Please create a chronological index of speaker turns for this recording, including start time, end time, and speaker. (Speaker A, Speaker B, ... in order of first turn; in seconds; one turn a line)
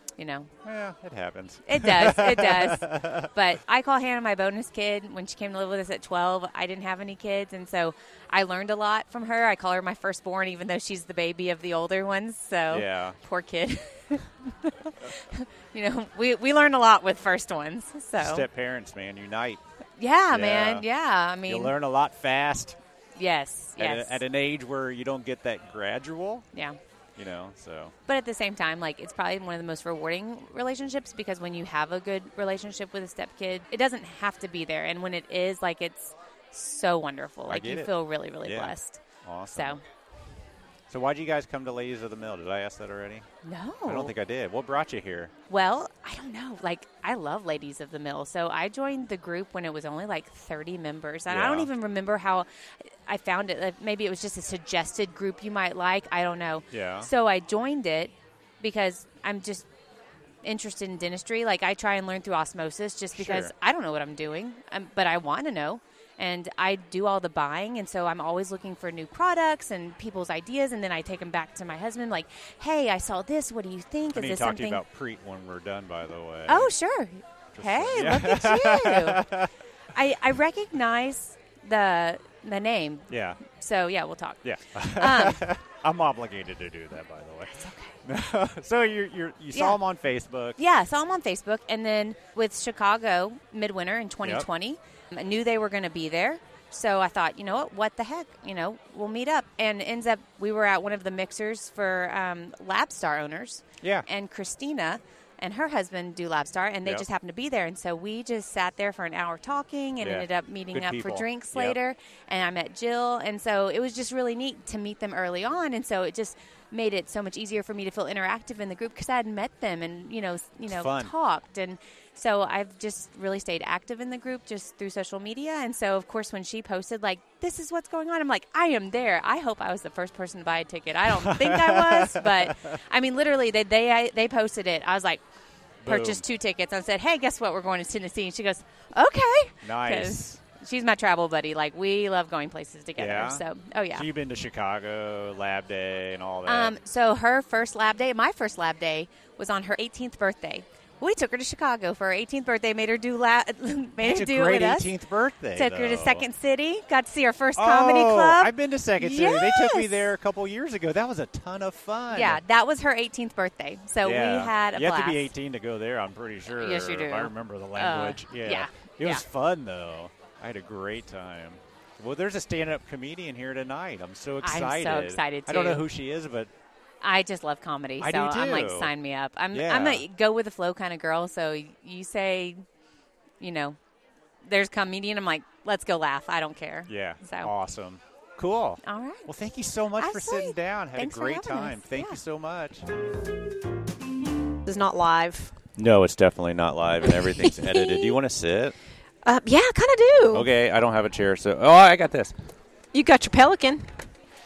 Speaker A: 0.2-0.5
Speaker B: 0.6-3.3
Speaker A: 1.7-18.4
Speaker B: 12.7-13.2
Speaker B: 18.2-19.6
Speaker A: 20.0-21.7
Speaker B: 20.3-20.8
Speaker B: 21.4-22.8
Speaker A: 23.2-24.2
Speaker B: 23.8-26.4
Speaker A: 26.5-26.8
Speaker B: 27.1-27.9
Speaker A: 28.1-39.8
Speaker B: 37.5-39.8
Speaker B: 40.9-43.2
Speaker A: 43.4-44.1
Speaker B: 43.9-45.3
Speaker A: 45.5-59.7
Speaker B: 51.3-51.7
Speaker B: 56.7-57.1
Speaker A: 60.4-74.8
Speaker B: 63.1-63.5
Speaker B: 74.1-76.7
Speaker A: 76.5-79.2
Speaker B: 77.5-79.5
Speaker A: 79.9-85.4
Speaker B: 83.1-83.4
Speaker B: 84.4-90.6
Speaker A: 87.5-88.0
Speaker A: 89.5-89.8
Speaker A: 90.6-135.2
Speaker B: 94.2-94.5
Speaker B: 103.8-104.1
Speaker B: 110.0-111.8
Speaker B: 120.7-121.1
Speaker B: 131.1-132.8
Speaker B: 135.8-136.2
Speaker A: 135.8-144.1
Speaker B: 139.6-140.4
Speaker B: 143.0-146.8
Speaker A: 146.4-154.9
Speaker B: 154.0-156.2
Speaker A: 155.5-160.0
Speaker B: 157.6-162.4
Speaker A: 162.1-165.3
Speaker B: 164.0-176.5
Speaker A: 166.5-169.2
Speaker A: 174.4-175.8
Speaker A: 177.0-182.6
Speaker B: 178.0-178.9
Speaker B: 179.5-180.0
Speaker A: 183.4-183.8
Speaker A: 184.4-187.5
Speaker B: 186.9-192.9
Speaker A: 188.8-189.3
Speaker A: 190.0-192.2
Speaker C: 194.7-195.5
Speaker B: 195.7-198.8
Speaker C: 197.2-198.1
Speaker C: 199.2-200.5
Speaker B: 200.3-202.3
Speaker C: 202.9-203.9